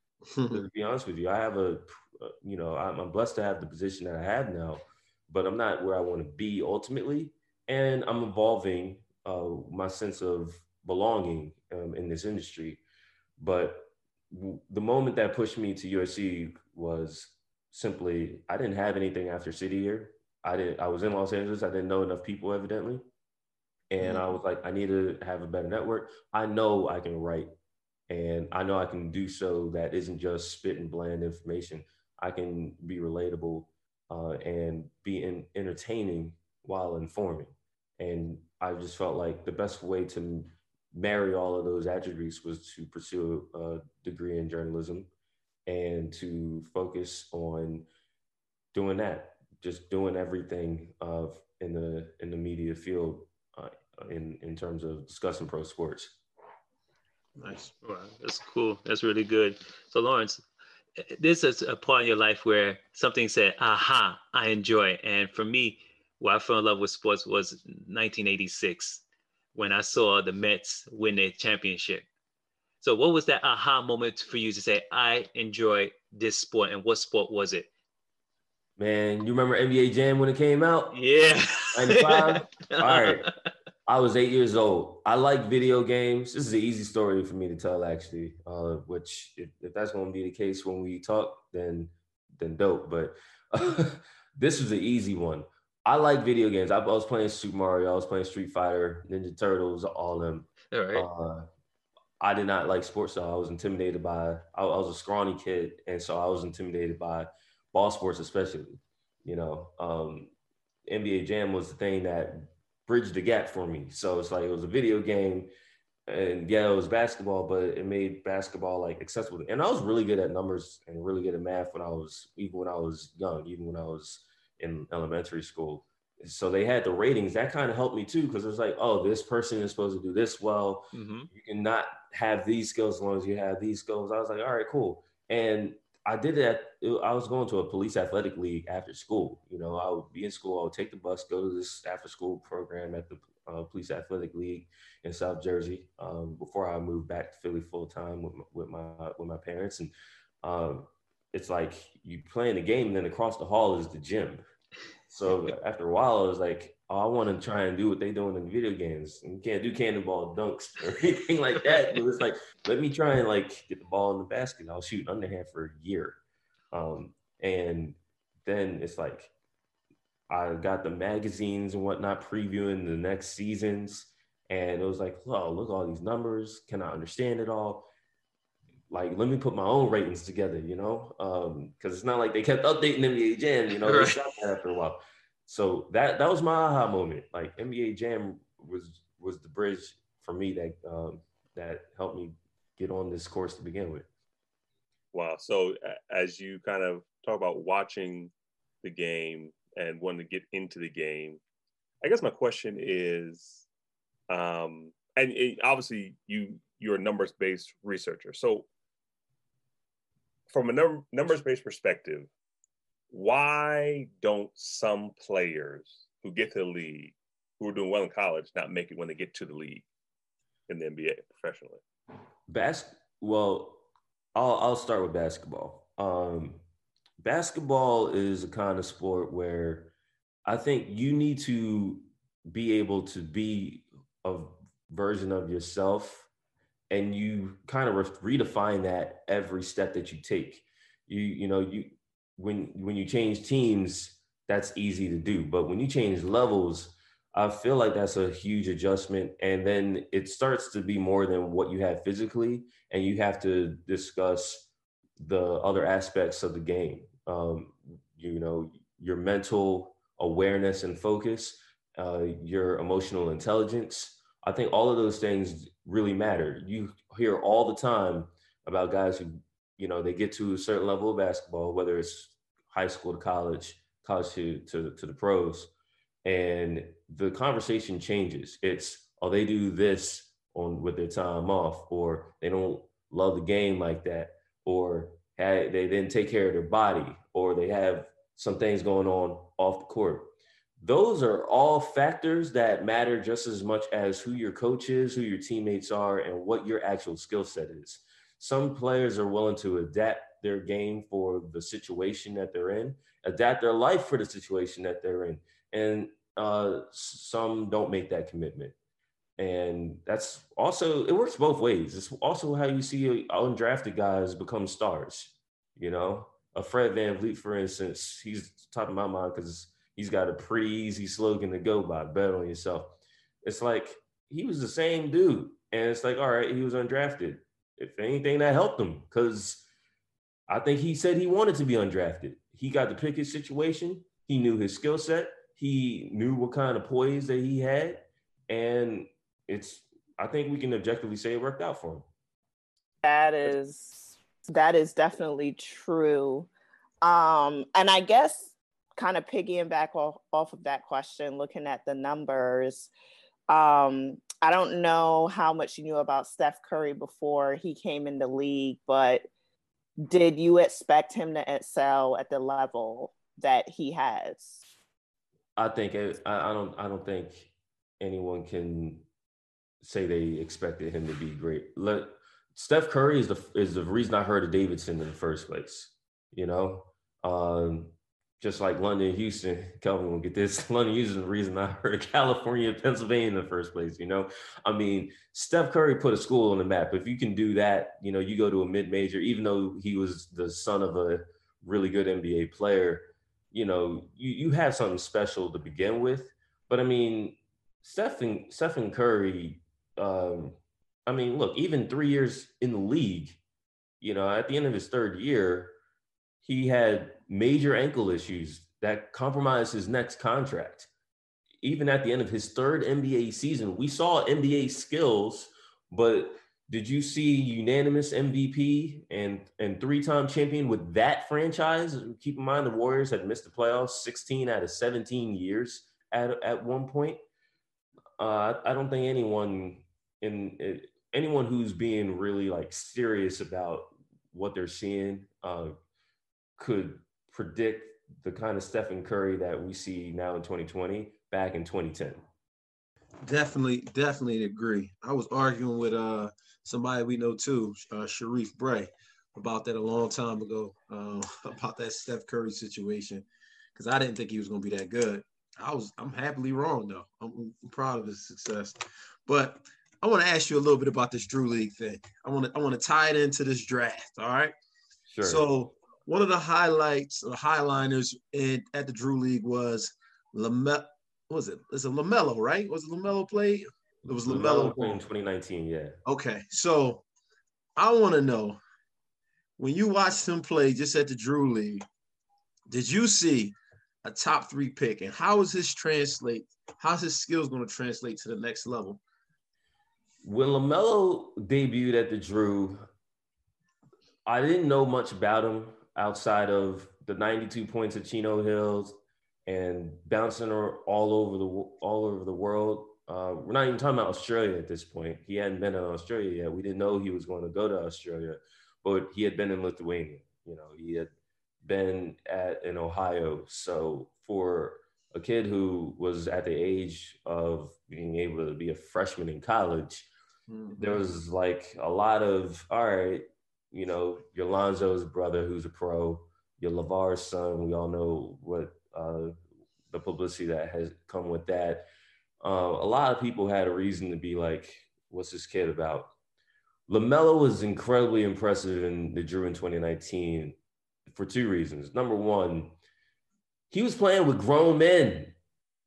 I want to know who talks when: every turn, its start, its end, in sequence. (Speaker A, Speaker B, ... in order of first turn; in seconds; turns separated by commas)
Speaker A: 0.3-0.6, Speaker B: 0.5-12.8, Speaker B: 13.4-23.0, Speaker B: 23.9-27.5, Speaker A: 24.0-24.3, Speaker B: 28.1-45.1, Speaker B: 45.6-47.9, Speaker B: 48.7-56.1, Speaker A: 57.4-57.7, Speaker C: 57.8-60.4, Speaker C: 61.0-69.0, Speaker C: 69.5-72.1, Speaker C: 72.8-77.7, Speaker B: 78.8-81.0, Speaker C: 80.9-83.3, Speaker B: 81.7-83.3, Speaker B: 83.8-101.5, Speaker C: 100.7-101.1, Speaker B: 102.2-110.3, Speaker B: 110.9-115.5, Speaker B: 116.1-149.9, Speaker C: 130.9-131.3, Speaker B: 150.4-154.4, Speaker B: 155.1-166.2, Speaker B: 166.7-169.3, Speaker B: 170.3-177.9, Speaker B: 178.9-194.1, Speaker C: 183.7-184.2, Speaker D: 195.1-198.3, Speaker D: 198.8-201.4, Speaker D: 202.0-203.7, Speaker D: 204.3-208.7, Speaker D: 210.5-212.3, Speaker D: 213.1-219.9, Speaker D: 220.7-221.8, Speaker B: 222.5-226.6, Speaker B: 227.2-229.9, Speaker B: 230.4-236.3, Speaker B: 236.9-254.7, Speaker B: 255.2-275.7, Speaker B: 276.2-308.7, Speaker B: 309.4-322.9, Speaker B: 323.4-329.6, Speaker B: 330.5-342.1, Speaker E: 343.0-346.5, Speaker E: 347.0-352.9, Speaker E: 353.5-359.3, Speaker E: 360.0-364.6, Speaker B: 365.6-369.1, Speaker B: 369.8-403.4, Speaker B: 404.0-405.7, Speaker B: 406.4-410.9, Speaker B: 411.6-427.2, Speaker B: 428.2-435.7, Speaker B: 436.6-442.2, Speaker A: 443.2-464.5, Speaker B: 465.1-465.5, Speaker A: 465.2-475.0, Speaker B: 474.2-475.9, Speaker A: 476.1-477.0, Speaker A: 477.8-478.6, Speaker A: 479.6-481.8, Speaker A: 482.7-489.0, Speaker B: 490.2-492.8, Speaker B: 494.2-498.9, Speaker B: 499.4-511.1, Speaker B: 511.6-520.1, Speaker A: 520.5-521.0, Speaker B: 520.7-529.3, Speaker B: 529.9-531.8, Speaker B: 532.4-536.1, Speaker B: 536.9-540.5, Speaker B: 541.1-542.7, Speaker B: 543.7-545.3